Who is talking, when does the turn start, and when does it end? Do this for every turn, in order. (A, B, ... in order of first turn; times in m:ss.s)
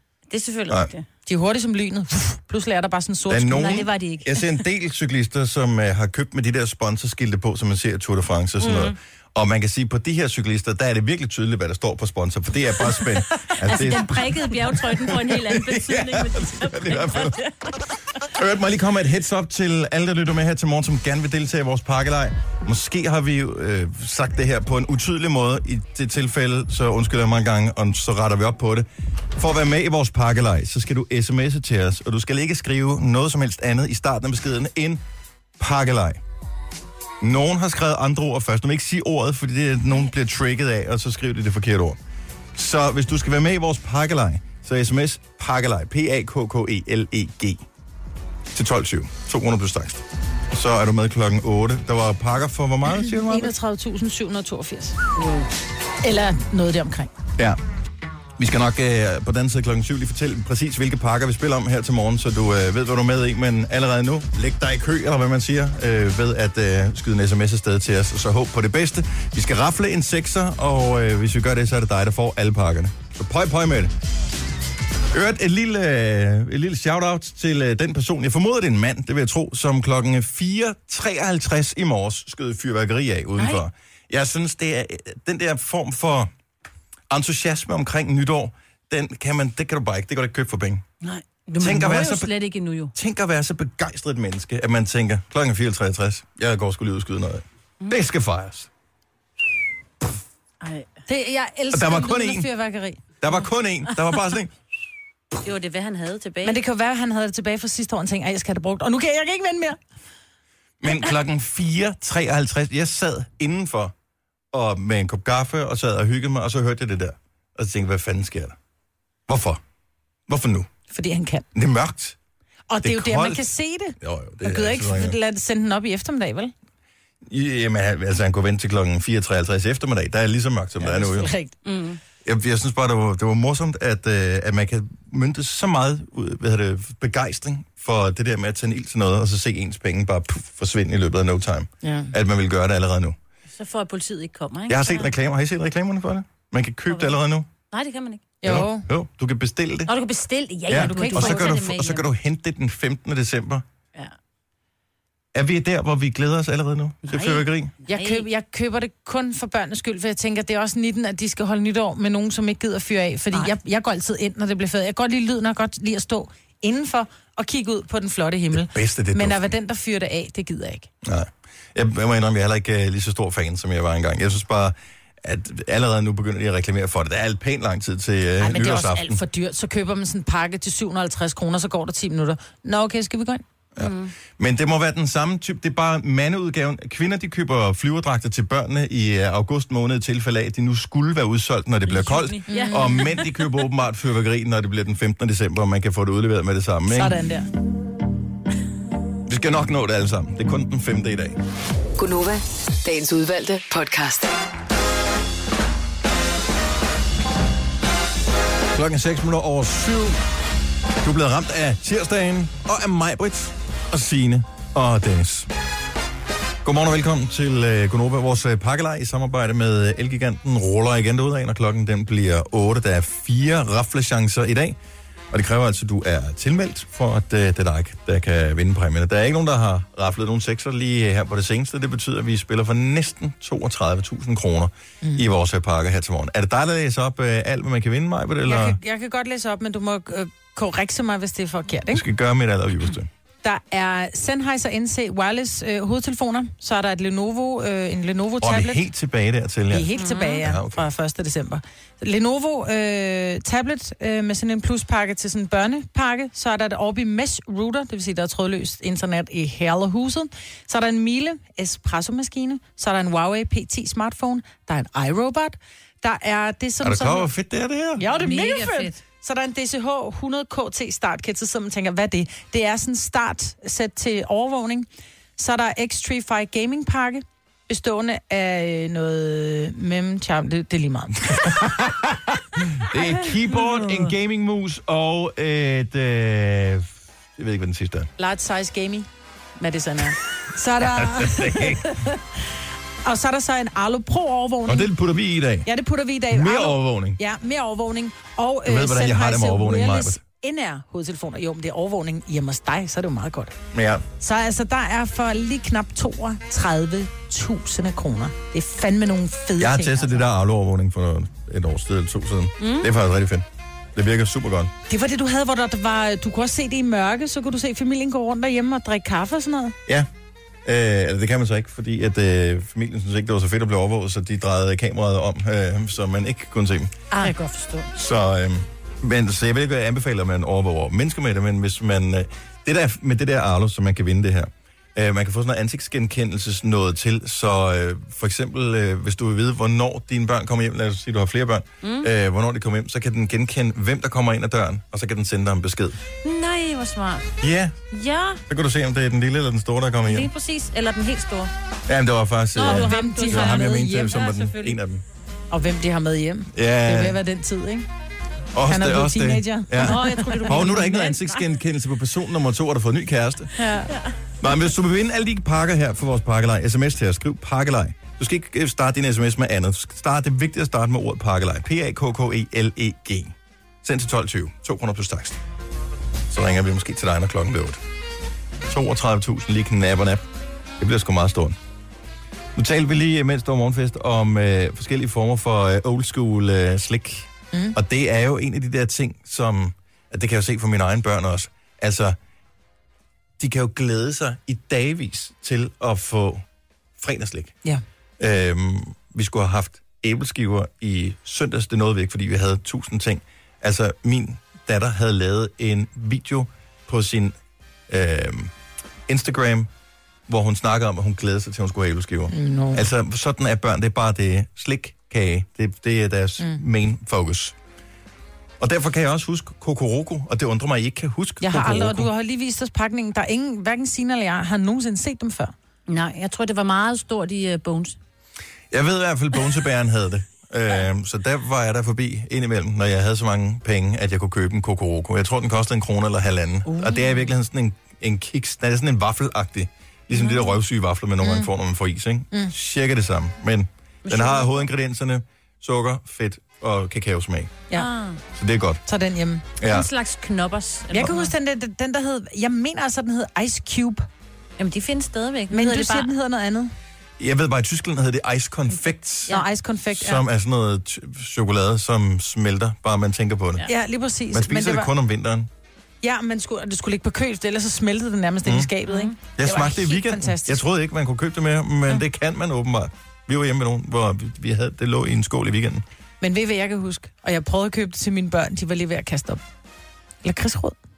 0:00.3-0:01.0 A
0:01.2-0:03.8 B
0:03.3-0:17.4 C
0:03.5-0:04.5 A
0:08.6-0:08.9 A
0:13.4-0:17.7 A
0:18.3-0:35.0 C
0:35.6-0:36.2 C
0:37.2-0:42.0 C
0:42.5-0:47.6 C
0:48.5-0:53.5 C
0:53.1-0:55.0 B
0:56.0-0:57.1 B
0:58.4-1:13.9 C
1:15.1-1:26.3 C
1:23.4-1:23.6 A
1:27.1-1:30.8 C
1:31.0-1:32.9 A
1:31.6-1:32.3 C
1:32.9-1:38.7 C
1:40.6-1:40.9 A
1:41.1-1:43.0 B
1:41.7-1:42.5 C
1:43.2-1:44.5 C
1:45.4-1:46.6 A
1:46.4-1:49.8 B
1:50.8-1:53.9 C
1:54.5-1:58.6 C
1:59.3-1:59.6 C
2:00.3-2:00.7 C
2:00.9-2:01.4 B
2:01.5-2:02.2 C
2:02.7-2:06.5 B
2:02.8-2:05.2 C
2:07.3-2:11.3 C
2:10.8-2:11.5 B
2:11.6-2:12.0 A
2:12.2-2:23.2 C
2:21.8-2:22.1 B
2:23.5-2:25.1 A
2:24.7-2:27.5 C
2:26.9-2:27.1 A
2:27.7-2:28.3 A
2:28.4-2:28.9 B
2:28.4-2:29.9 C
2:29.9-2:32.0 A
2:30.7-2:33.6 C
2:30.7-2:31.5 B
2:35.3-2:37.7 C
2:37.1-2:38.2 A
2:37.8-2:50.9 B
2:48.5-2:49.5 C
2:51.0-2:59.2 C
2:58.4-3:03.4 B
3:03.8-3:17.2 C
3:03.8-3:04.1 A
3:11.9-3:13.4 A
3:12.5-3:13.0 B
3:16.9-3:17.5 B
3:19.2-3:21.4 C
3:22.0-3:24.3 D
3:28.7-3:30.2 C
3:31.0-3:35.5 C
3:36.6-3:44.8 C
3:45.3-3:58.8 C
3:58.4-4:02.0 B
4:01.9-4:03.1 C
4:03.4-4:08.8 B
4:08.4-4:10.9 C
4:09.7-4:27.3 B
4:10.0-4:10.4 A
4:26.8-4:28.0 C
4:28.0-4:41.2 B
4:28.1-4:29.0 A
4:41.3-4:48.1 C
4:43.6-4:44.0 A
4:48.2-4:49.1 B
4:49.6-4:52.4 B
4:50.9-4:51.9 C
4:53.0-4:54.9 B
4:54.6-4:55.7 C
4:55.6-5:03.5 B
4:56.3-4:57.2 C
4:58.6-5:00.2 C
5:03.7-5:04.0 C
5:04.2-5:10.2 B
5:09.6-5:14.7 C
5:12.6-5:12.9 A
5:14.9-5:19.8 B
5:20.6-5:26.9 C
5:27.2-5:27.9 A
5:27.9-5:46.0 C
5:41.8-5:42.1 A
5:46.2-5:47.3 A
5:47.4-5:47.8 C
5:47.9-5:48.4 A
5:48.5-5:50.3 C
5:50.0-5:51.5 A
5:51.9-5:55.0 C
5:52.6-5:54.8 A
5:52.6-5:54.1 B
5:55.5-5:57.9 B
5:56.5-5:57.2 C
5:58.5-6:03.6 C
5:58.7-6:00.9 B
5:59.8-6:01.5 A
6:03.6-6:04.1 A
6:04.4-6:15.4 C
6:16.3-6:17.8 C
6:18.7-6:20.3 C
6:20.8-6:21.6 C
6:22.5-6:32.2 C
6:33.4-6:36.4 C
6:37.0-6:37.5 C
6:38.2-6:47.4 C
6:47.9-6:48.5 C
6:49.1-6:49.7 C
6:50.3-6:57.5 C
6:52.3-6:52.8 B
6:58.6-7:02.1 C
7:01.4-7:05.5 B
7:05.9-7:08.0 A
7:08.7-7:27.5 C
7:16.8-7:17.2 A
7:20.1-7:20.5 A
7:21.2-7:21.5 B
7:24.0-7:24.7 A
7:27.7-7:28.2 A
7:28.3-7:28.8 C
7:28.8-7:29.4 B
7:29.6-7:29.9 C
7:29.6-7:31.3 A
7:30.9-7:34.1 B
7:34.6-7:36.1 A
7:35.5-7:36.7 B
7:37.2-7:39.3 C
7:39.3-7:40.2 B
7:39.9-7:43.6 C
7:43.7-7:44.9 B
7:44.3-7:45.5 C
7:46.0-7:50.6 B
7:48.4-7:48.7 C
7:48.8-7:49.2 A
7:49.4-7:55.8 C
7:56.2-7:59.4 B
8:00.2-8:00.8 B